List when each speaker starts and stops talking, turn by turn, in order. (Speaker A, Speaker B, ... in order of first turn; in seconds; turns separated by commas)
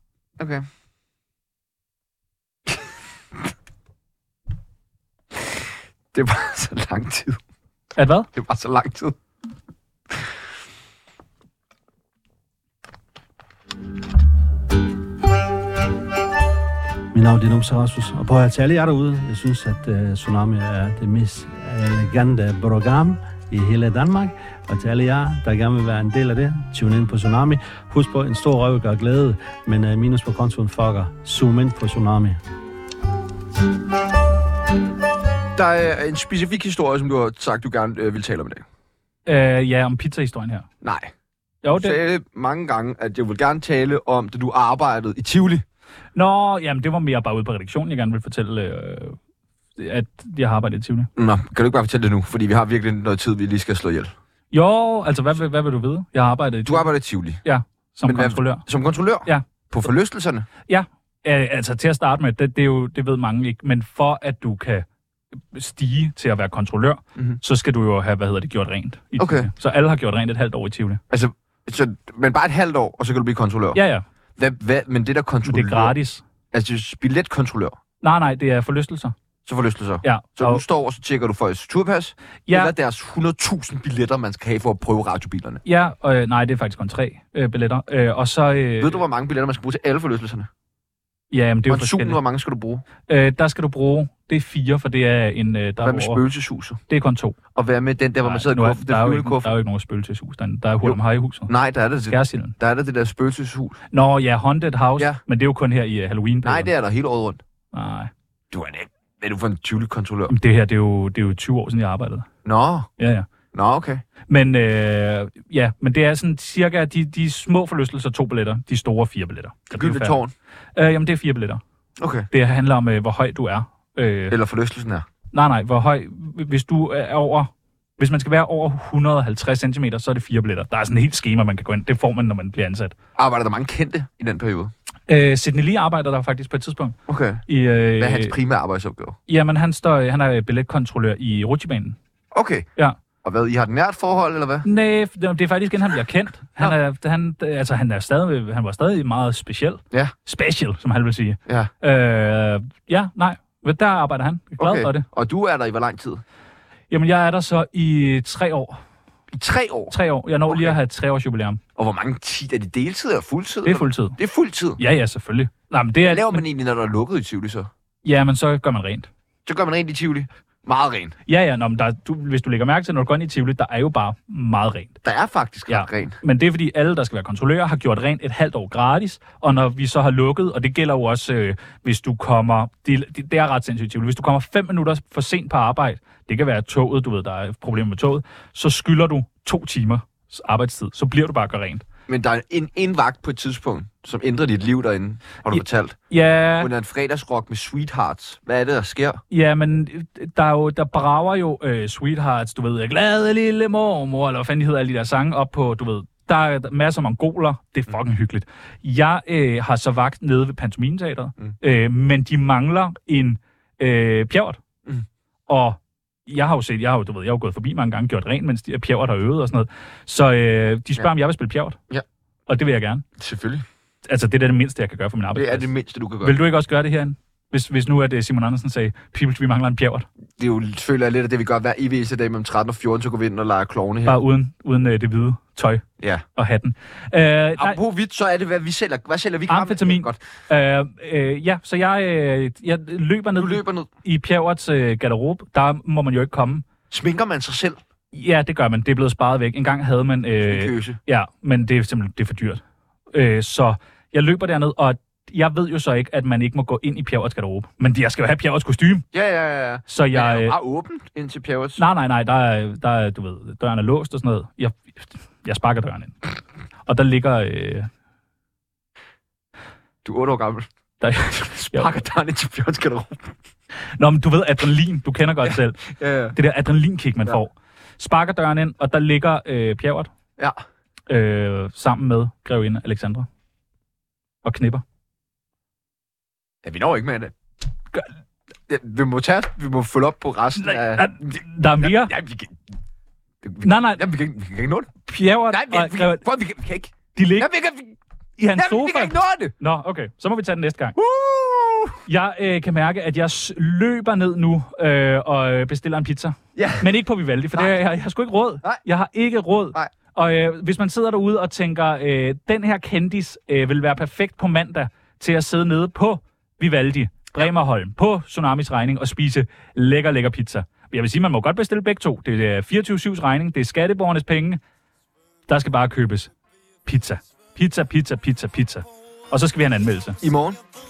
Speaker A: 0.4-0.7, Speaker A: 6.1-7.4, Speaker B: 8.0-8.3, Speaker A: 8.3-9.2, Speaker C: 17.1-32.4, Speaker A: 35.5-38.6, Speaker B: 39.3-40.7, Speaker A: 40.8-41.1, Speaker B: 41.6-42.0, Speaker A: 41.7-45.6, Speaker B: 46.1-49.2, Speaker B: 49.8-51.1, Speaker A: 51.2-54.1, Speaker B: 54.5-56.9, Speaker A: 56.6-57.4, Speaker B: 57.4-58.7, Speaker A: 58.1-60.5, Speaker B: 60.7-64.9, Speaker B: 65.5-71.0, Speaker A: 69.2-69.5, Speaker A: 71.1-73.8, Speaker B: 73.7-74.0, Speaker A: 74.4-76.0, Speaker B: 75.5-76.2, Speaker A: 76.5-77.8, Speaker B: 78.0-79.2, Speaker A: 79.5-85.6, Speaker B: 80.0-80.6, Speaker B: 82.5-82.7, Speaker B: 85.7-89.0, Speaker A: 88.8-90.5, Speaker B: 91.3-92.2, Speaker A: 91.7-92.8, Speaker B: 93.1-96.2, Speaker A: 95.8-96.8, Speaker B: 96.9-97.4, Speaker A: 97.5-99.5, Speaker B: 98.2-101.5, Speaker A: 100.8-103.8, Speaker B: 102.1-102.6, Speaker B: 103.9-106.7, Speaker A: 106.4-107.4, Speaker B: 107.7-108.1, Speaker A: 108.5-110.3, Speaker B: 110.3-112.3, Speaker A: 112.5-112.9, Speaker B: 113.0-113.3, Speaker A: 113.5-114.0, Speaker B: 114.3-120.2, Speaker A: 119.7-120.3, Speaker B: 120.8-121.6, Speaker A: 122.0-122.3, Speaker B: 122.3-124.4, Speaker A: 124.3-125.1, Speaker B: 125.3-132.9, Speaker A: 133.2-134.7, Speaker B: 135.1-137.0, Speaker A: 137.1-137.4, Speaker B: 137.5-138.4, Speaker A: 138.0-139.2, Speaker B: 139.3-142.0, Speaker A: 142.3-142.7, Speaker A: 143.2-144.7, Speaker B: 144.6-155.1, Speaker A: 154.6-156.2, Speaker B: 156.9-158.8, Speaker A: 159.3-159.9, Speaker B: 159.9-161.6, Speaker A: 160.5-160.8, Speaker A: 161.8-164.8, Speaker B: 163.7-164.2, Speaker B: 164.8-166.4, Speaker A: 166.1-167.7, Speaker B: 168.0-169.1, Speaker A: 169.5-171.2, Speaker B: 171.3-175.0, Speaker A: 175.0-176.2, Speaker B: 175.7-191.9, Speaker A: 192.1-196.0, Speaker B: 195.5-196.7, Speaker A: 196.6-199.2, Speaker B: 199.3-214.6, Speaker B: 215.5-221.8, Speaker B: 222.5-223.1, Speaker A: 223.2-223.7, Speaker B: 224.1-230.1, Speaker A: 225.3-226.4, Speaker A: 230.4-234.2, Speaker B: 234.1-235.8, Speaker A: 236.0-236.2, Speaker B: 236.4-237.8, Speaker A: 237.6-240.2, Speaker B: 239.5-246.7, Speaker A: 243.4-243.9, Speaker A: 246.9-247.8, Speaker B: 248.1-259.1, Speaker A: 250.4-251.0, Speaker A: 259.1-261.8, Speaker B: 259.9-260.6, Speaker B: 261.8-266.2, Speaker B: 266.9-267.9, Speaker A: 270.0-270.7, Speaker B: 271.0-271.9, Speaker A: 271.3-273.4, Speaker B: 274.0-275.8, Speaker A: 275.4-276.4, Speaker B: 276.3-280.1, Speaker B: 281.1-283.3, Speaker B: 284.4-284.8, Speaker A: 286.6-287.3, Speaker A: 288.7-292.6, Speaker B: 290.6-292.1, Speaker A: 293.4-294.9, Speaker B: 293.6-294.0, Speaker B: 295.1-296.2, Speaker A: 295.5-298.0, Speaker B: 297.1-297.5, Speaker B: 298.4-301.0, Speaker A: 298.6-299.5, Speaker A: 301.0-302.0, Speaker B: 302.1-324.6, Speaker A: 306.6-306.9, Speaker B: 325.5-326.3, Speaker B: 326.9-330.2, Speaker A: 330.2-330.6